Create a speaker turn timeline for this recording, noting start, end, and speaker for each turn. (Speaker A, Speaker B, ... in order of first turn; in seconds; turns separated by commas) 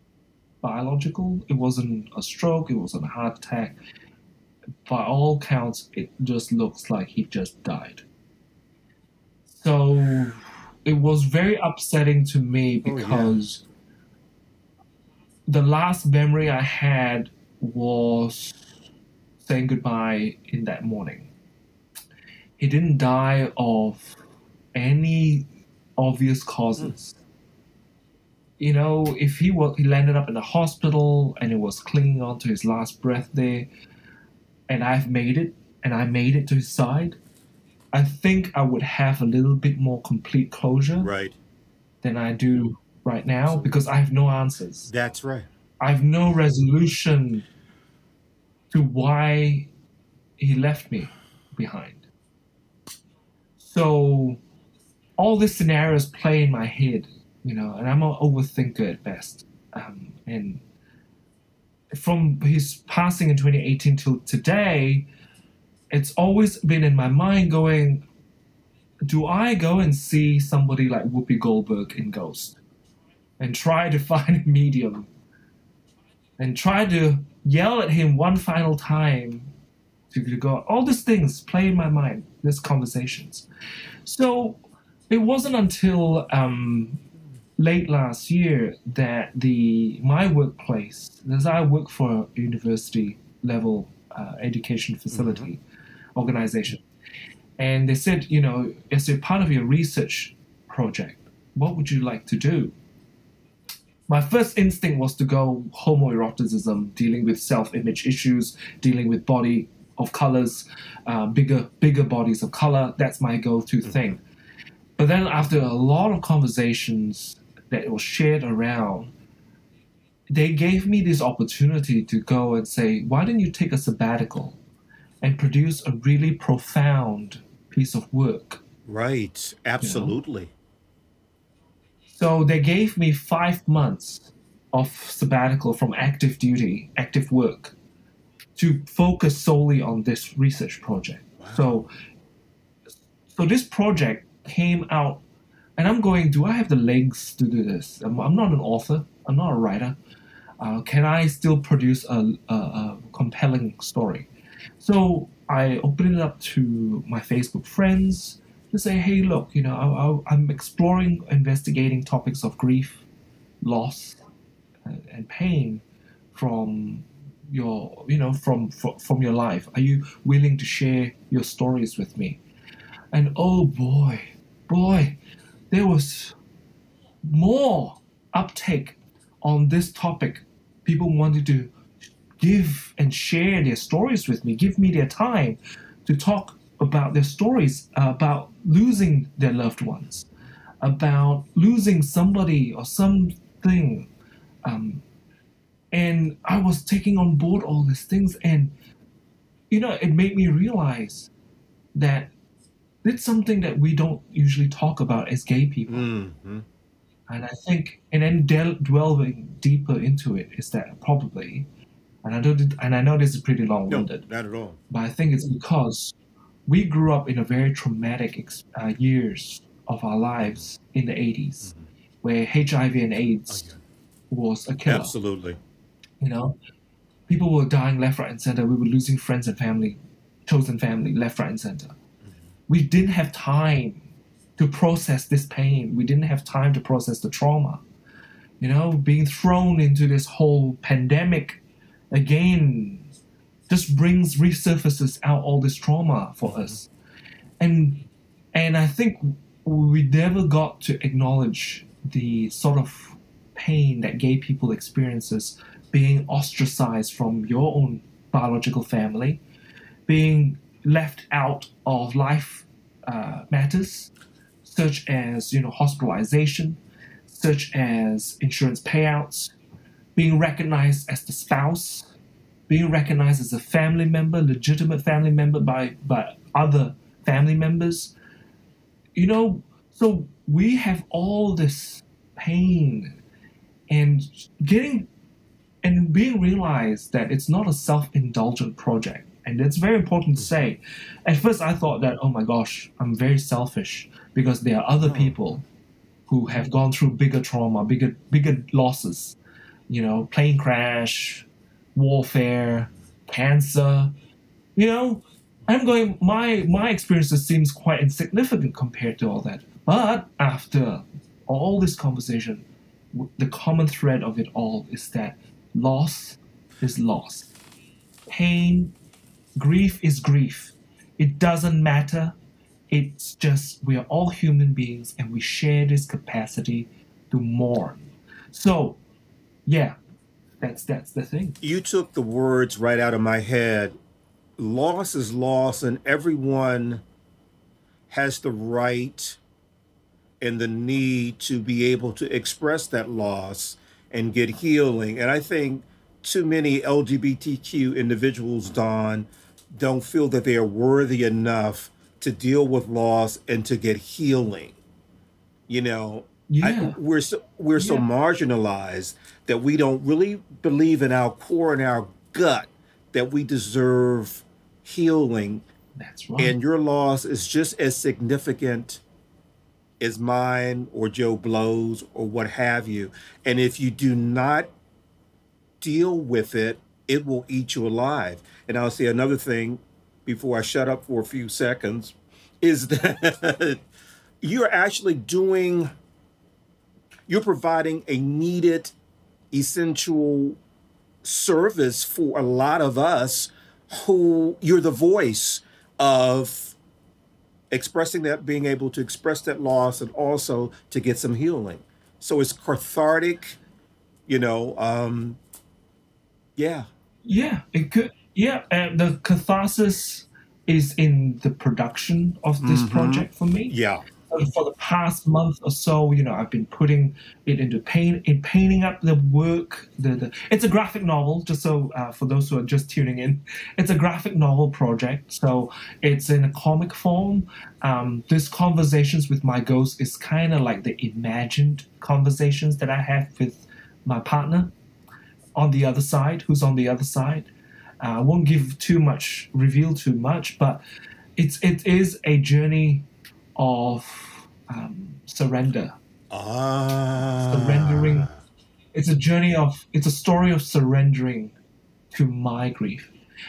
Speaker A: 0.6-3.8, Speaker A: 4.8-8.0, Speaker A: 9.5-13.6, Speaker B: 12.8-13.4, Speaker A: 15.5-18.7, Speaker A: 19.4-21.3, Speaker A: 22.6-24.2, Speaker A: 24.7-27.2, Speaker A: 28.6-33.7, Speaker A: 34.7-37.2, Speaker A: 37.9-41.1, Speaker B: 41.0-41.4, Speaker A: 42.0-44.9, Speaker B: 43.5-43.7, Speaker B: 44.9-45.5, Speaker A: 45.8-47.4, Speaker A: 48.7-49.7, Speaker A: 50.4-52.0, Speaker A: 53.6-54.4, Speaker A: 55.2-60.6, Speaker A: 61.9-65.1, Speaker A: 65.9-68.0, Speaker A: 69.0-72.6, Speaker A: 73.4-75.1, Speaker A: 76.4-79.5, Speaker A: 80.1-83.5, Speaker A: 84.0-87.0, Speaker A: 87.6-95.6, Speaker B: 95.1-95.5, Speaker A: 96.2-96.8, Speaker A: 97.6-102.7, Speaker A: 104.1-114.2, Speaker B: 113.8-114.1, Speaker A: 115.0-119.1, Speaker A: 120.3-124.6, Speaker A: 125.2-128.6, Speaker B: 128.8-130.5, Speaker A: 129.8-130.1, Speaker A: 132.1-137.7, Speaker A: 138.6-141.9, Speaker B: 141.4-141.8, Speaker A: 143.3-145.2, Speaker A: 145.8-149.9, Speaker A: 150.6-154.3, Speaker A: 154.8-163.0, Speaker A: 163.6-164.2, Speaker A: 164.8-165.8, Speaker A: 166.3-172.4, Speaker A: 173.1-175.2, Speaker A: 175.7-176.3, Speaker A: 177.2-181.7, Speaker A: 182.4-190.3, Speaker A: 190.8-194.1, Speaker A: 194.6-195.0, Speaker A: 195.9-198.7, Speaker A: 199.7-201.3, Speaker A: 201.9-202.3, Speaker A: 203.0-206.1, Speaker B: 205.9-206.6, Speaker A: 207.3-211.7, Speaker A: 212.2-214.2, Speaker B: 213.9-214.8, Speaker A: 214.9-216.1, Speaker A: 216.7-223.7, Speaker B: 223.5-223.8, Speaker A: 224.3-225.1, Speaker B: 224.8-225.6, Speaker A: 226.2-226.6, Speaker A: 227.3-231.9, Speaker A: 232.7-234.0, Speaker A: 234.6-237.8, Speaker A: 238.6-241.6, Speaker A: 242.1-243.1, Speaker A: 243.7-246.9, Speaker A: 247.6-259.4, Speaker A: 260.1-264.1, Speaker A: 264.6-269.5, Speaker A: 270.1-272.1, Speaker A: 272.7-278.1, Speaker A: 279.1-283.2, Speaker A: 283.9-285.1, Speaker A: 285.8-295.6, Speaker B: 295.0-295.4, Speaker A: 296.3-299.4, Speaker A: 299.9-304.1, Speaker A: 304.8-317.5, Speaker A: 318.3-318.9, Speaker A: 319.6-322.4, Speaker A: 322.9-329.0, Speaker A: 329.6-329.9, Speaker A: 330.6-331.6, Speaker B: 331.6-333.9, Speaker B: 334.6-337.0, Speaker B: 338.1-339.4, Speaker B: 340.4-354.7, Speaker B: 355.7-365.6, Speaker A: 356.5-357.0, Speaker A: 357.8-358.0, Speaker A: 365.9-366.6, Speaker B: 366.4-369.0, Speaker B: 370.0-374.7, Speaker B: 375.8-383.8, Speaker B: 384.4-385.9, Speaker B: 387.3-388.9, Speaker B: 389.5-390.6, Speaker B: 391.2-396.8, Speaker B: 397.7-403.6, Speaker B: 404.3-405.4, Speaker B: 406.6-406.9, Speaker A: 407.2-413.8, Speaker B: 412.6-414.0, Speaker A: 414.3-434.7, Speaker A: 435.6-437.5, Speaker A: 438.0-440.8, Speaker A: 441.4-445.9, Speaker B: 446.3-448.3, Speaker A: 447.5-448.3, Speaker A: 448.9-451.5, Speaker A: 452.1-453.1